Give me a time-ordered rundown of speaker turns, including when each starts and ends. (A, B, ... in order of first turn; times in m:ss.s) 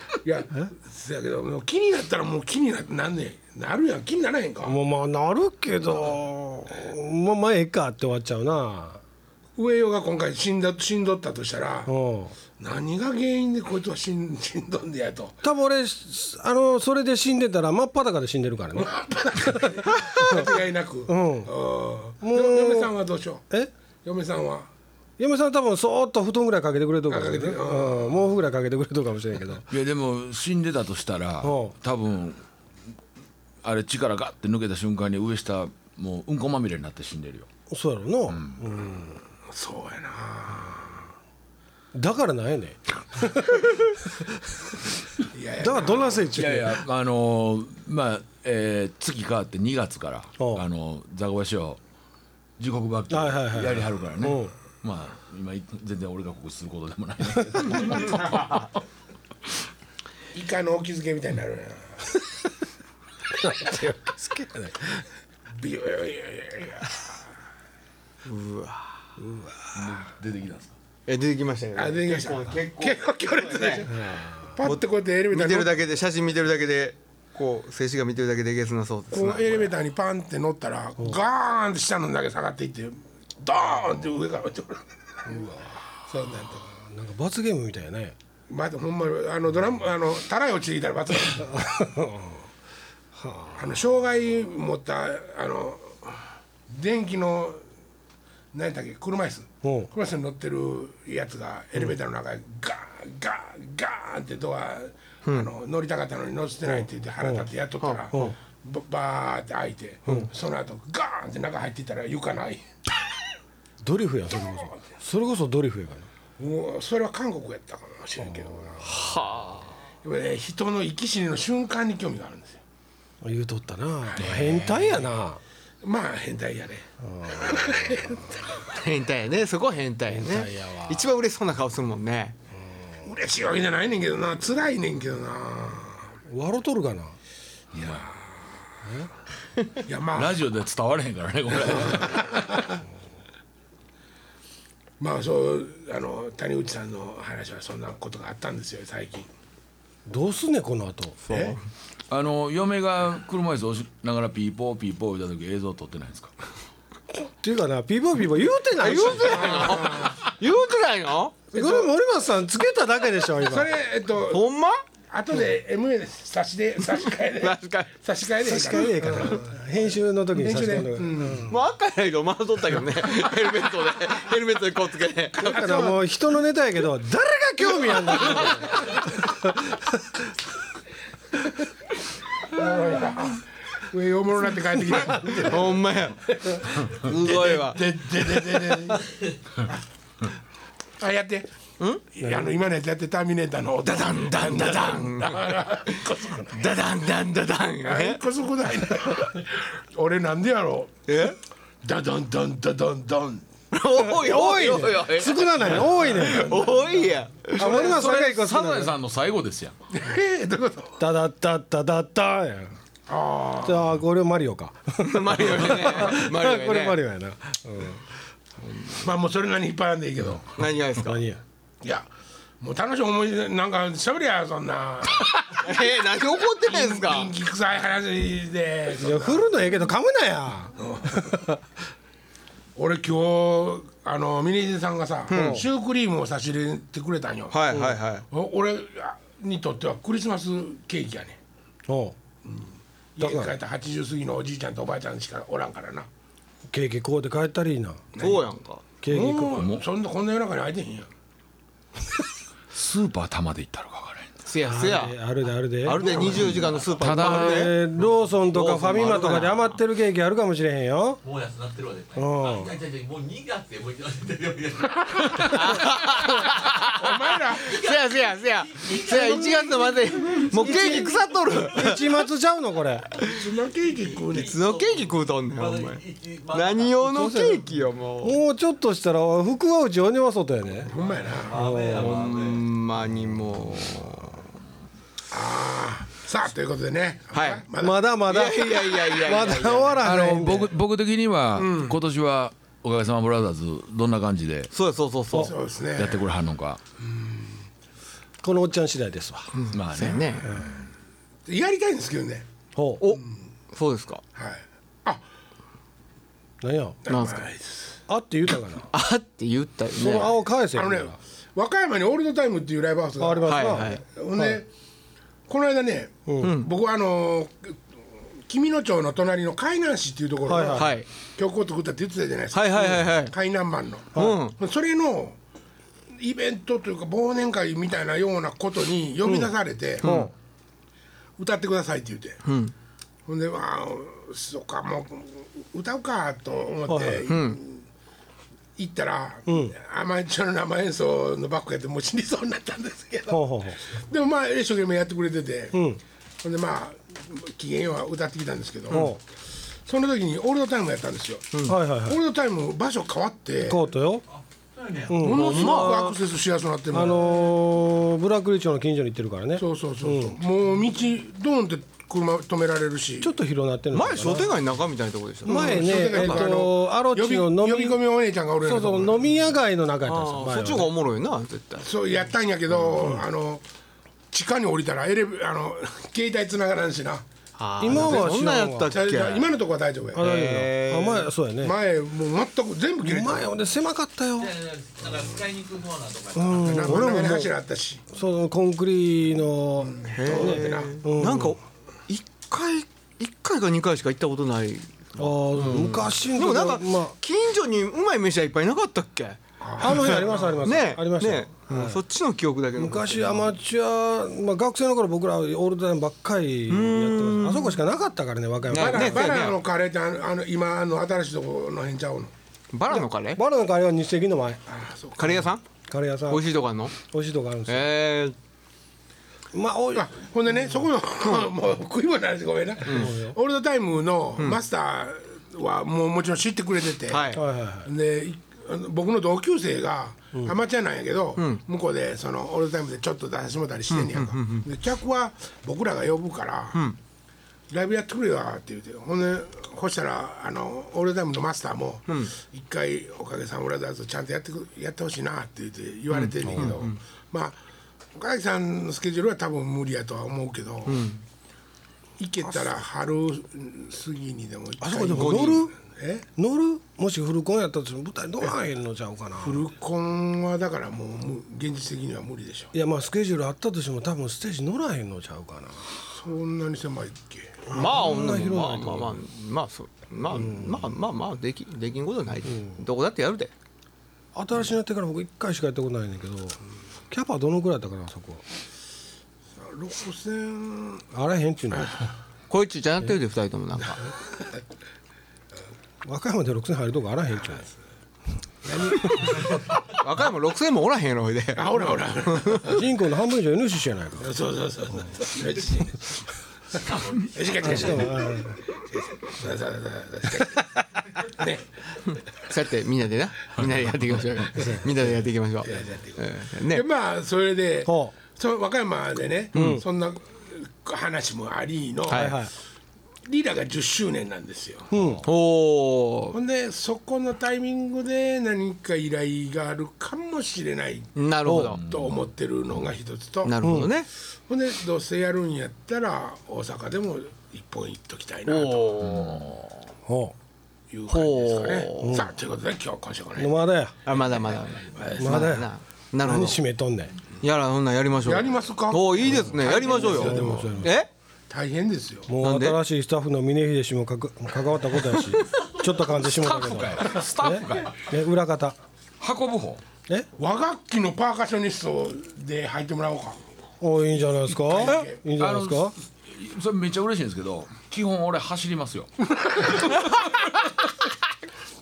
0:00.2-0:04.8 A
0:04.6-0:09.0 B
0:09.6-0:11.9 A
0:11.8-0:12.3 B
0:12.6-0:15.4 A
0:15.4-0:20.5 B
0:18.8-0:23.4 A
0:21.1-0:21.5 B
0:22.2-0:22.9 B
0:24.0-0:24.7 A
0:25.2-0:29.7 B
0:27.1-0:28.2 A
0:29.7-0:32.4 C
0:31.4-0:31.7 B
0:33.6-0:37.5 C
0:37.7-0:39.2 B
0:38.3-0:38.6 C
0:39.5-0:41.1 A
0:41.9-0:44.3 B
0:45.3-0:46.4 A
0:45.6-0:46.8 B
0:46.3-0:51.8 C
0:50.4-0:50.6 B
0:52.6-0:58.7 C
0:53.1-0:54.5 B
1:00.3-1:02.0 A
1:03.4-1:05.0 B
1:05.6-1:07.1 A
1:08.2-1:09.0 D
1:09.2-1:09.9 B
1:09.7-1:10.7 C
1:11.1-1:13.9 D
1:11.8-1:15.7 A
1:13.9-1:14.5 B
1:15.3-1:19.7 D
1:19.1-1:26.7 A
1:25.3-1:25.6 B
1:26.8-1:28.1 B
1:28.5-1:31.6 A
1:31.3-1:32.4 B
1:33.1-1:33.6 B
1:33.5-1:37.6 A
1:38.5-1:52.6 A
1:39.6-1:39.9 B
1:46.7-1:47.4 B
1:53.8-1:56.1 B
1:56.4-1:58.9 A
1:58.8-1:59.7 D
2:00.0-2:02.6 A
2:03.2-2:05.4 B
2:04.1-2:04.5 A
2:04.2-2:04.9 C
2:05.8-2:08.4 A
2:07.0-2:08.2 B
2:08.6-2:12.4 D
2:10.1-2:11.1 B
2:12.6-2:12.9 B
2:13.0-2:16.1 A
2:16.3-2:17.2 B
2:17.7-2:18.1 C
2:17.8-2:18.2 A
2:19.8-2:20.4 A
2:20.1-2:22.6 C
2:21.8-2:22.8 A
2:25.0-2:29.3 A
2:30.0-2:31.2 B
2:31.2-2:31.6 D
2:31.3-2:31.6 A
2:32.1-2:36.3 C
2:37.4-2:39.9 B
2:38.8-2:41.4 D
2:39.2-2:40.2 A
2:41.5-2:41.9 A
2:41.5-2:43.7 B
2:43.4-2:44.4 A
2:44.3-2:44.8 D
2:45.1-2:49.5 A
2:46.9-2:47.9 D
2:48.4-2:51.5 B
2:50.4-2:51.5 A
2:51.5-2:55.6 D
2:55.4-3:00.2 B
2:55.4-2:56.0 A
2:57.9-2:58.7 D
3:02.4-3:05.7 A
3:05.2-3:09.0 D
3:06.5-3:09.0 A
3:11.0-3:11.5 A
3:12.1-3:16.6 A
3:13.8-3:18.2 D
3:17.8-3:21.0 A
3:21.1-3:21.4 D
3:21.8-3:23.4 A
3:23.7-3:27.9 D
3:24.0-3:26.7 B
3:26.1-3:26.5 A
3:27.5-3:28.9 B
3:27.6-3:29.8 C
3:29.9-3:31.0 A
3:31.0-3:32.8 B
3:33.1-3:33.9 A
3:33.6-3:38.0 B
3:35.0-3:37.0 D
3:38.6-3:39.0 D
3:39.0-3:40.5 A
3:40.6-3:41.2 D
3:41.0-3:41.4 B
3:41.8-3:42.1 A
3:42.6-3:45.9 A
3:45.5-3:47.3 D
3:46.6-3:49.5 A
3:49.0-3:51.6 B
3:50.8-3:51.3 A
3:52.8-3:57.6 A
3:55.3-3:55.6 D
3:55.3-3:55.6 B
3:57.5-3:58.2 D
3:57.7-3:58.0 B
3:58.3-4:01.4 A
4:01.9-4:02.2 B
4:02.4-4:06.1 A
4:03.2-4:03.5 B
4:06.7-4:08.0 B
4:08.1-4:08.4 A
4:08.2-4:08.8 D
4:09.0-4:09.6 B
4:09.0-4:11.1 A
4:09.5-4:09.8 C
4:12.7-4:14.3 C
4:14.4-4:15.2 D
4:14.6-4:21.2 B
4:15.8-4:17.8 D
4:16.2-4:17.7 C
4:16.5-4:17.0 E
4:18.5-4:19.7 D
4:21.2-4:26.8 E
4:22.2-4:22.7 B
4:25.4-4:26.9 D
4:26.9-4:27.7 A
4:27.6-4:31.1 E
4:27.6-4:32.2 D
4:30.5-4:33.0 B
4:33.2-4:34.5 A
4:34.3-4:37.0 E
4:34.3-4:38.4 D
4:37.0-4:37.6 B
4:38.2-4:40.9 B
4:40.8-4:41.6 A
4:41.0-4:42.6 E
4:41.5-4:42.3 B
4:41.9-4:44.5 D
4:45.3-4:48.1 A
4:47.3-4:47.6 D
4:47.8-4:50.7 B
4:48.2-4:50.1 D
4:50.0-4:54.7 C
4:51.6-4:51.9 A
4:54.7-4:55.5 D
4:55.3-4:56.3 A
4:55.9-4:56.8 C
4:57.0-4:57.6 A
4:58.4-4:59.5 B
4:59.5-5:00.5 D
4:59.7-5:00.9 C
5:01.5-5:02.5 A
5:02.7-5:03.0 B
5:03.0-5:04.2 D
5:04.3-5:05.2 A
5:06.6-5:07.0 B
5:07.0-5:08.0 A
5:07.1-5:07.4 D
5:08.1-5:08.9 B
5:08.9-5:10.3 D
5:09.9-5:11.2 B
5:10.7-5:14.7 A
5:13.2-5:14.6 B
5:13.4-5:14.0 D
5:15.5-5:17.8 A
5:16.3-5:16.5 B
5:16.4-5:16.7 D
5:18.4-5:25.4 A
5:20.5-5:20.9 B
5:20.7-5:21.1 D
5:22.5-5:23.3 D
5:24.1-5:24.6 D
5:26.1-5:30.1 A
5:29.2-5:29.5 B
5:30.0-5:30.3 D
5:30.0-5:30.3 B
5:31.4-5:32.4 A
5:32.4-5:32.7 D
5:33.3-5:37.8 A
5:36.9-5:37.3 B
5:37.3-5:37.6 D
5:38.8-5:45.8 A
5:39.5-5:39.7 B
5:43.3-5:43.8 B
5:45.7-5:46.0 B
5:46.4-5:49.1 A
5:48.9-5:49.2 B
5:49.8-5:53.8 A
5:51.6-5:52.2 B
5:53.6-5:54.2 B
5:54.7-5:55.2 E
5:55.1-5:56.1 B
5:55.2-5:57.4 A
5:55.3-5:56.0 D
5:56.9-6:00.4 B
5:59.6-6:03.3 A
6:03.2-6:04.5 B
6:03.9-6:06.4 D
6:05.4-6:08.0 B
6:05.4-6:09.3 A
6:08.6-6:10.9 B
6:10.0-6:11.9 D
6:11.8-6:13.6 A
6:14.3-6:17.2 A
6:17.6-6:19.5 D
6:17.8-6:18.9 B
6:17.9-6:18.3 A
6:18.9-6:20.2 A
6:20.1-6:21.7 B
6:20.2-6:21.3 D
6:21.6-6:23.5 A
6:23.0-6:24.6 B
6:24.4-6:26.8 E
6:26.3-6:27.5 B
6:26.6-6:28.0 A
6:28.1-6:31.6 B
6:29.8-6:31.0 A
6:30.1-6:43.4 D
6:35.2-6:37.1 B
6:39.6-6:40.6 A
6:39.8-6:42.0 B
6:42.8-6:49.4 B
6:46.7-6:47.8 D
6:48.7-6:49.6 D
6:48.7-6:52.3 A
6:52.7-6:53.4 D
6:52.9-6:54.6 B
6:54.7-6:55.4 A
6:55.2-6:55.6 D
6:55.9-6:56.4 B
6:56.3-6:56.9 D
6:57.1-6:57.9 B
6:57.7-6:58.4 D
6:59.5-7:00.1 B
6:59.9-7:16.8 A
7:02.8-7:03.2 D
7:02.9-7:03.4 B
7:07.1-7:07.4 D
7:07.3-7:07.9 B
7:13.9-7:14.6 D
7:17.7-7:27.6 A
7:26.1-7:27.0 D
7:28.1-7:31.1 A
7:30.9-7:31.2 D
7:32.2-7:36.2 A
7:34.8-7:35.7 B
7:35.1-7:35.6 D
7:36.4-7:39.6 B
7:39.4-7:42.7 A
7:42.7-7:45.9 B
7:46.0-7:47.9 A
7:47.7-7:53.5 D
7:47.7-7:49.2 B
7:50.3-7:50.9 B
7:52.5-7:52.7 B
7:54.3-7:56.6 B
7:57.1-7:58.4 B
7:59.6-8:01.0 A
8:01.1-8:01.9 B
8:02.5-8:04.0 D
8:06.0-8:07.7 B
8:08.6-8:09.2 A
8:09.9-8:11.8 D
8:11.6-8:12.8 A
8:12.3-8:12.6 D
8:12.6-8:14.3 B
8:14.2-8:16.2 A
8:17.1-8:18.5 A
8:17.6-8:18.5 B
8:19.2-8:21.6 A
8:22.4-8:26.8 D
8:25.6-8:32.4 A
8:27.8-8:28.1 B
8:29.5-8:29.8 B
8:29.5-8:29.8 D
8:32.1-8:32.4 D
8:32.1-8:32.5 B
8:33.3-8:34.9 A
8:34.9-8:35.2 B
8:34.9-8:35.2 C
8:35.2-8:36.4 D
8:36.3-8:43.5 A
8:41.2-8:41.8 D
8:41.4-8:41.7 B
8:41.5-8:42.2 C
8:43.4-8:44.1 D
8:43.6-8:43.9 B
8:44.5-8:49.0 A
8:48.5-8:49.5 D
8:49.0-8:49.7 C
8:50.0-8:50.3 B
8:50.9-8:53.6 A
8:51.1-8:52.3 D
8:52.0-8:52.3 B
8:53.4-8:54.0 B
8:54.0-8:56.6 D
8:55.0-8:55.6 A
8:55.2-8:55.7 B
8:56.2-8:57.1 B
8:57.4-9:01.1 D
8:58.2-9:00.9 A
8:59.6-9:00.9 B
9:01.5-9:02.3 A
9:02.3-9:08.8 B
9:02.4-9:02.8 D
9:05.1-9:05.5 D
9:06.2-9:08.0 C
9:09.2-9:09.8 C
9:10.4-9:13.4 A
9:13.8-9:15.9 B
9:14.6-9:15.2 A
9:15.4-9:20.7 C